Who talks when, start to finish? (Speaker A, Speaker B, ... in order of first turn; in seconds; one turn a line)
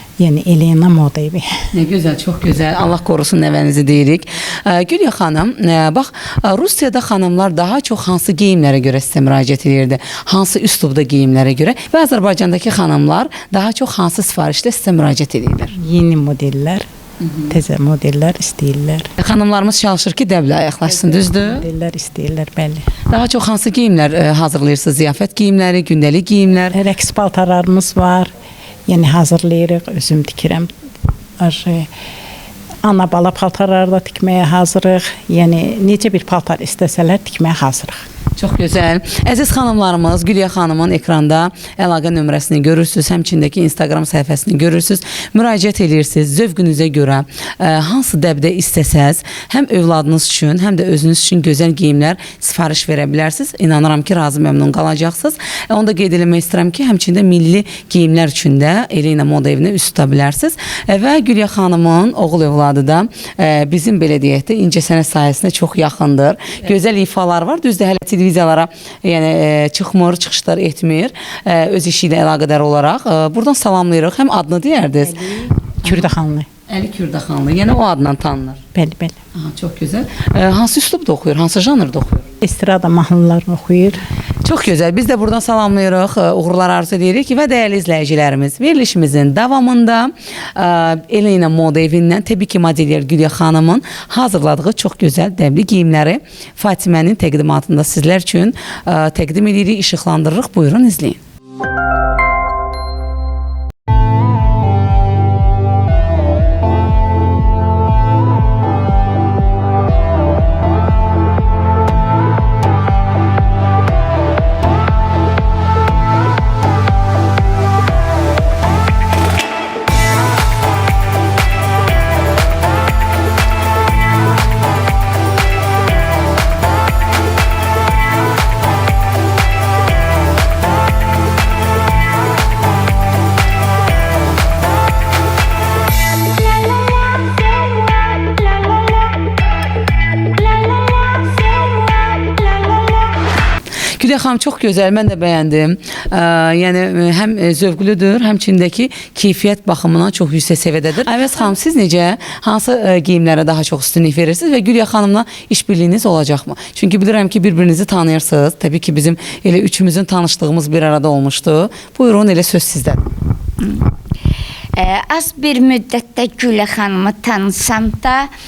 Speaker A: 0.2-1.5
Speaker B: 1.7-15.7
Speaker A: 15.8-16.9
Speaker A: 17.5-19.1
Speaker B: 19.2-21.7
Speaker A: 20.9-22.9
Speaker B: 23.1-26.8
Speaker A: 26.7-28.3
Speaker A: 28.9-30.7
Speaker A: 31.4-31.9
Speaker A: 32.8-38.0
Speaker B: 38.4-76.1
Speaker A: 75.1-76.5
Speaker B: 76.7-78.6
Speaker A: 78.8-79.2
Speaker B: 79.3-82.3
Speaker A: 82.4-84.0
Speaker B: 84.4-101.2
Speaker B: 144.0-163.1
Speaker C: 164.8-168.3